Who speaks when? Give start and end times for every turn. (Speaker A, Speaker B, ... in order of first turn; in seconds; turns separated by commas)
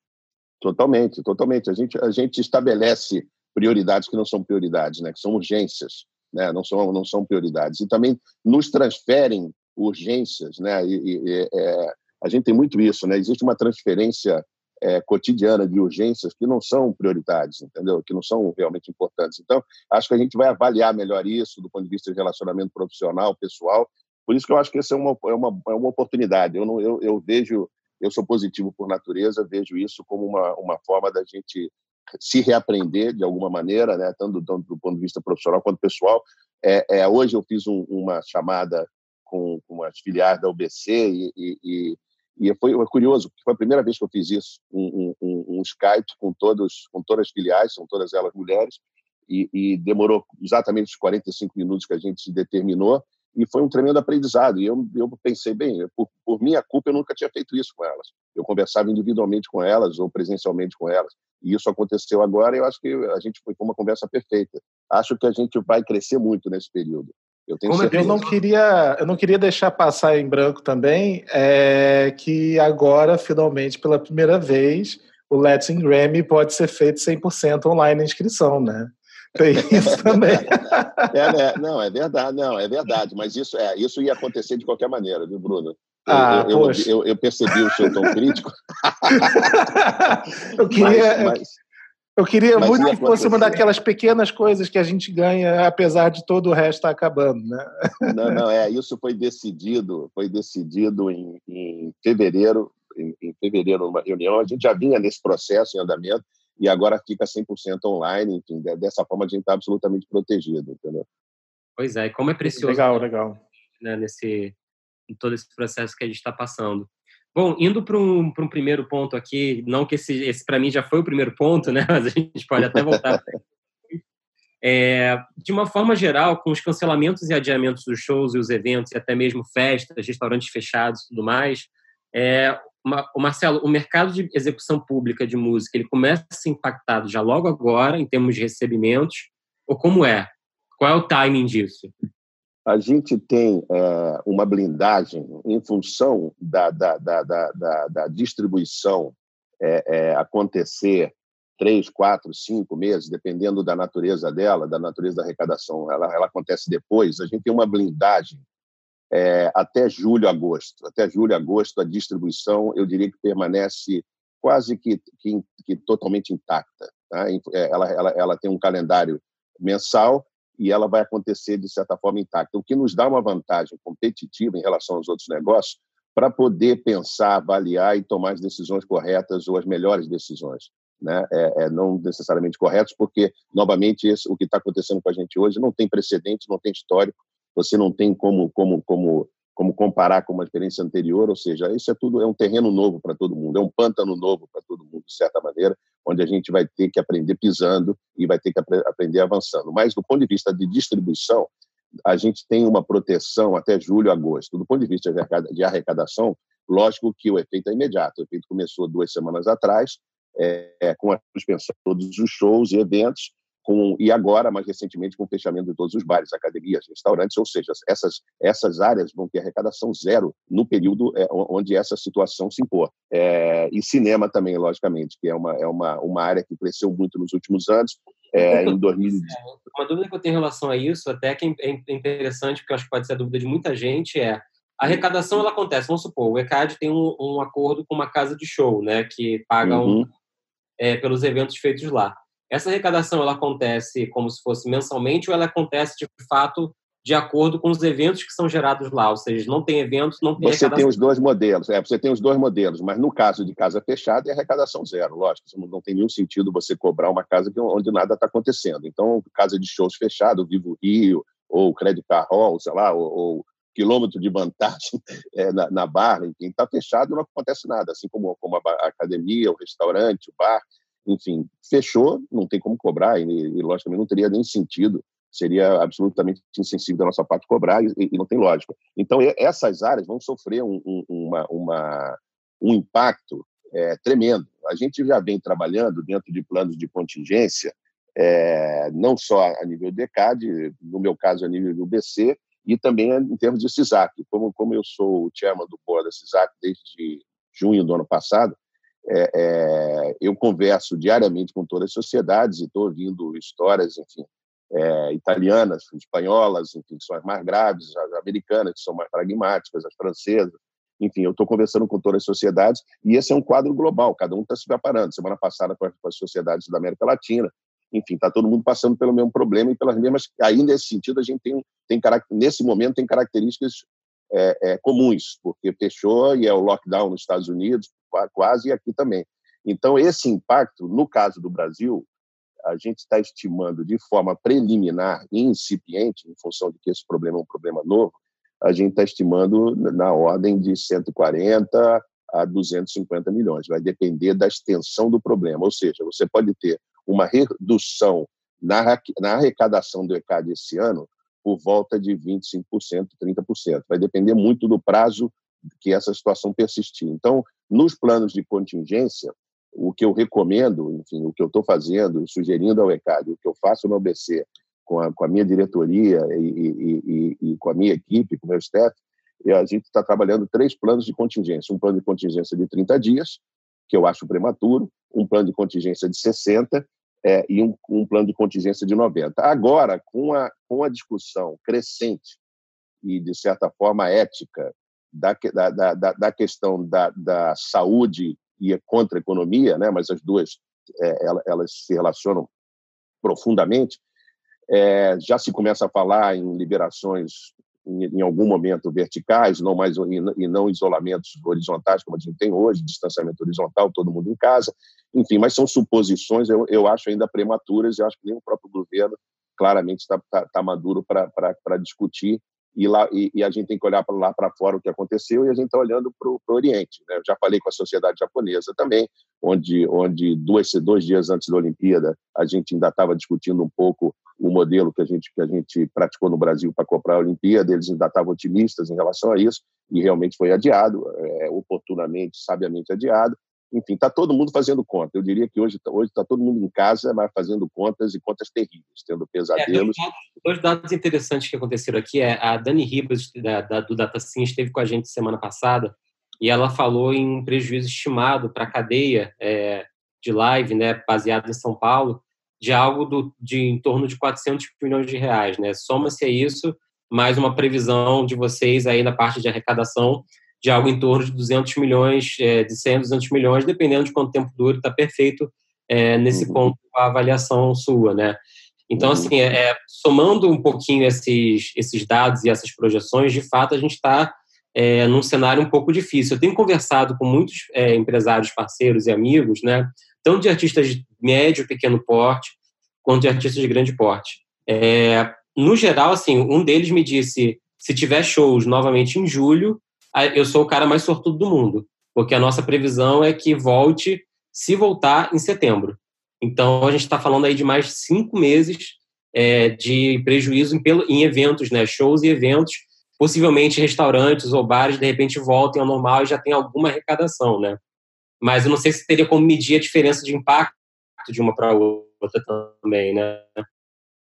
Speaker A: 0.6-68.2, Speaker B: 67.7-68.4, Speaker C: 67.9-81.1, Speaker A: 79.7-89.8, Speaker C: 86.1-86.9, Speaker C: 87.6-88.1, Speaker C: 89.1-91.4, Speaker A: 90.7-91.5, Speaker C: 92.2-98.3, Speaker A: 92.6-93.6, Speaker A: 98.1-111.1, Speaker B: 111.8-113.1, Speaker C: 112.4-113.4, Speaker B: 113.8-114.5, Speaker B: 115.1-123.2, Speaker A: 122.6-123.3, Speaker B: 124.6-141.9, Speaker A: 142.7-158.4, Speaker A: 159.1-201.5, Speaker A: 202.1-229.4, Speaker B: 228.4-240.0, Speaker A: 239.6-240.1, Speaker B: 240.8-250.9, Speaker A: 250.4-332.1, Speaker A: 332.7-382.4, Speaker A: 383.0-392.5, Speaker A: 393.2-394.0, Speaker A: 394.7-439.9, Speaker B: 439.6-468.4, Speaker A: 466.3-466.6, Speaker B: 468.9-507.8, Speaker A: 469.0-469.3, Speaker B: 508.4-513.6